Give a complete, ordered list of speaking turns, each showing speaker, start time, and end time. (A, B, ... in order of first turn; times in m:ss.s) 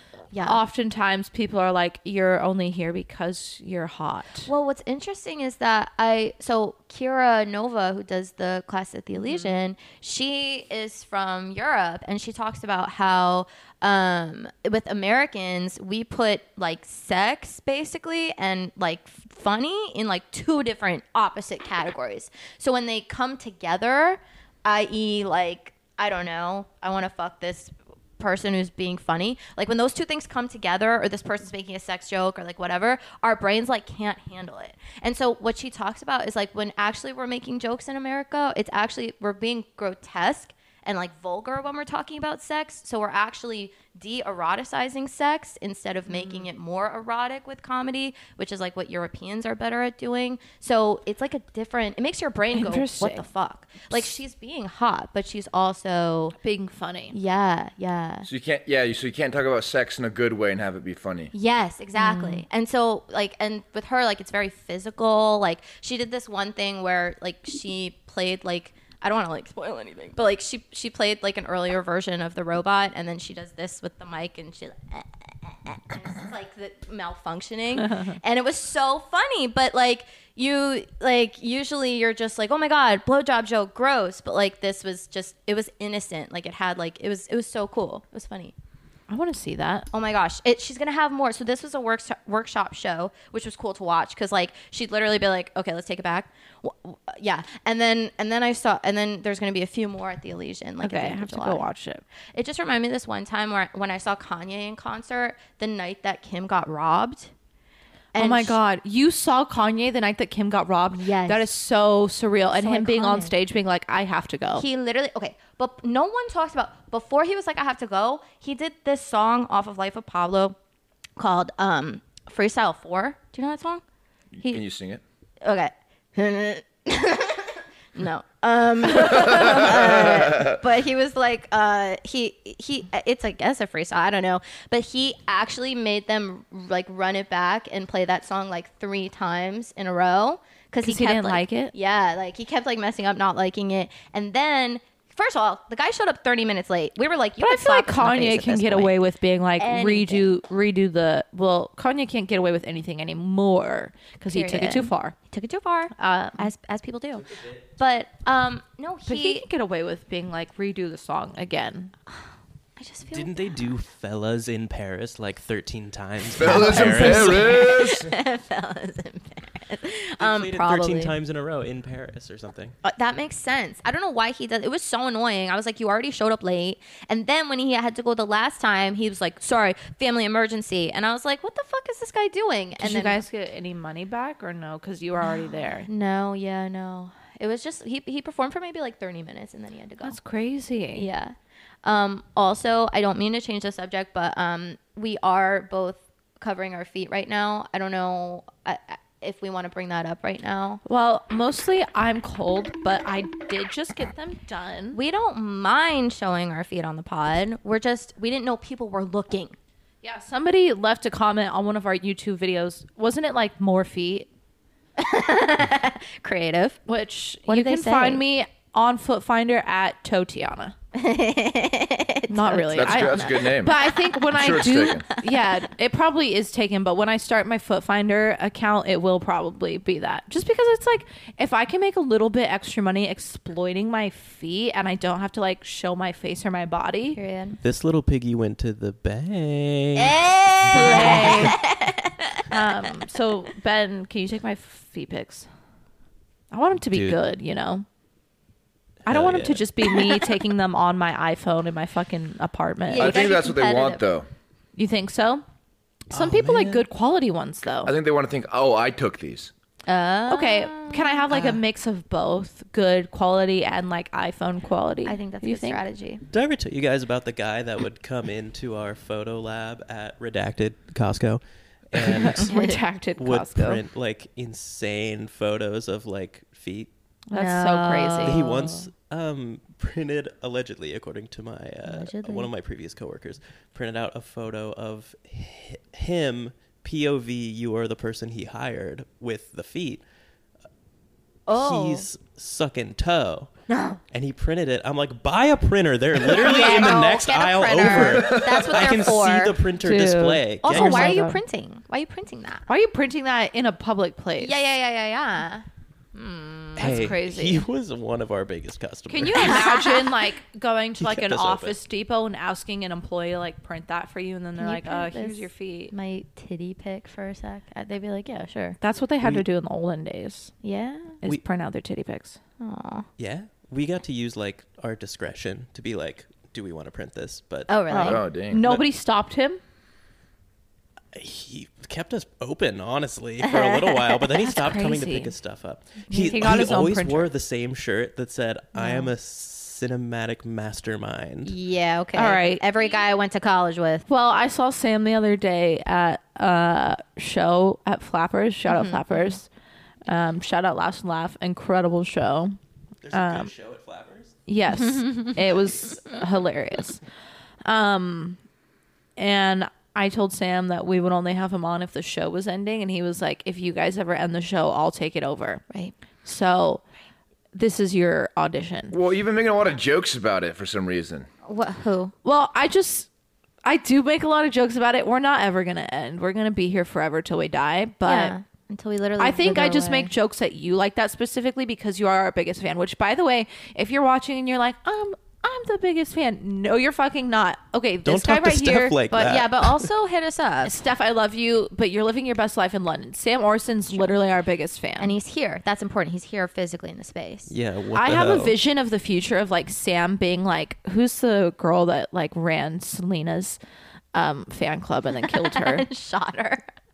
0:00.3-0:00.6 A
0:00.4-0:04.5 B
0:04.5-0:56.4 A
0:46.1-0:46.4 B
0:52.5-0:53.3 B
0:56.4-0:57.2 B
0:57.1-0:58.3 A
0:58.2-1:01.3 C
1:01.3-1:28.5 A
1:02.0-1:02.4 B
1:17.8-1:18.2 B
1:29.1-1:29.9 B
1:29.9-1:41.7 A
1:40.8-1:42.0 B
1:42.3-1:47.3 A
1:48.1-1:48.6 A
1:48.2-1:54.6 B
1:50.9-1:51.5 A
1:52.5-1:53.3 A
1:54.6-2:00.6 A
2:01.2-2:03.8 A
2:04.4-2:05.0 C
2:05.4-2:29.0 A
2:09.3-2:10.6 C
2:20.8-2:21.7 B
2:27.4-2:35.1 B
2:29.6-2:30.3 A
2:34.3-2:39.4 A
2:36.0-2:36.5 B
2:39.1-2:41.9 B
2:42.8-2:43.6 A
2:43.1-2:47.8 D
2:46.3-2:48.1 C
2:46.4-2:51.2 A
2:50.2-2:52.8 D
2:52.8-3:03.2 A
3:02.8-3:05.9 B
3:05.2-3:10.2 A
3:10.0-3:11.0 B
3:10.9-3:20.8 A
3:20.8-3:25.0 B
3:24.9-3:29.6 A
3:30.0-3:34.3 B
3:35.0-3:36.8 A
3:36.9-3:40.8 B
3:37.5-3:38.2 A
3:40.9-3:44.6 A
3:42.3-3:57.2 B
3:42.7-3:43.8 C
3:44.3-3:45.0 C
3:57.2-3:57.6 A
3:57.6-4:01.4 D
4:00.0-4:02.4 A
4:00.7-4:01.6 B
4:02.5-4:05.5 B
4:06.5-4:07.9 B
4:06.9-4:07.2 D
4:09.0-4:09.6 D
4:09.1-4:13.2 B
4:12.9-4:14.0 A
4:13.0-4:14.3 C
4:14.8-4:15.4 B
4:16.1-4:17.9 B
4:16.1-4:16.8 D
4:17.8-4:19.5 C
4:19.9-4:21.6 A
4:20.3-4:25.8 B
4:25.0-4:26.2 A
4:26.3-4:32.5 D
4:32.1-4:33.8 B
4:32.4-4:32.8 A
4:33.2-4:36.9 D
4:37.3-4:38.4 B
4:37.3-4:38.9 A
4:38.2-4:50.0 D
4:41.8-4:42.5 A
4:51.5-4:52.1 A
4:51.5-4:53.5 D
4:53.7-4:54.0 B
4:54.1-5:01.2 D
4:56.2-4:59.6 A
4:58.0-4:59.0 C
4:59.8-5:01.4 B
5:00.6-5:02.7 A
5:02.7-5:04.6 B
5:04.4-5:07.1 A
5:06.8-5:09.6 D
5:06.8-5:07.6 B
5:09.1-5:15.9 B
5:09.3-5:10.1 A
5:11.0-5:11.8 D
5:14.6-5:18.8 A
5:18.8-5:20.5 B
5:20.6-5:21.2 A
5:21.2-5:22.4 B
5:22.6-5:23.1 A
5:23.2-5:27.7 D
5:27.7-5:28.2 A
5:27.9-5:29.6 B
5:28.0-5:28.8 C
5:31.1-5:41.6 D
5:33.4-5:34.3 A
5:34.4-5:35.3 B
5:36.1-5:37.3 B
5:36.1-5:36.4 A
5:41.4-5:44.1 A
5:42.2-5:42.6 B
5:44.1-5:49.5 B
5:48.7-5:49.0 A
5:50.1-5:52.6 B
5:53.0-5:54.4 D
5:53.1-5:53.5 B
5:54.5-5:57.0 B
5:55.0-5:55.3 A
5:57.6-5:58.4 B
5:59.2-6:05.6 B
6:06.2-6:06.8 B
6:07.5-6:09.0 B
6:08.9-6:11.3 C
6:11.4-6:12.1 A
6:12.2-6:13.1 B
6:13.6-6:18.4 B
6:18.1-6:20.1 A
6:19.2-6:29.1 B
6:28.0-6:29.9 D
6:29.1-6:30.7 A
6:30.6-6:35.1 B
6:35.0-6:37.5 A
6:37.5-6:38.6 D
6:38.0-6:43.6 B
6:44.1-6:45.8 B
6:45.3-6:46.6 A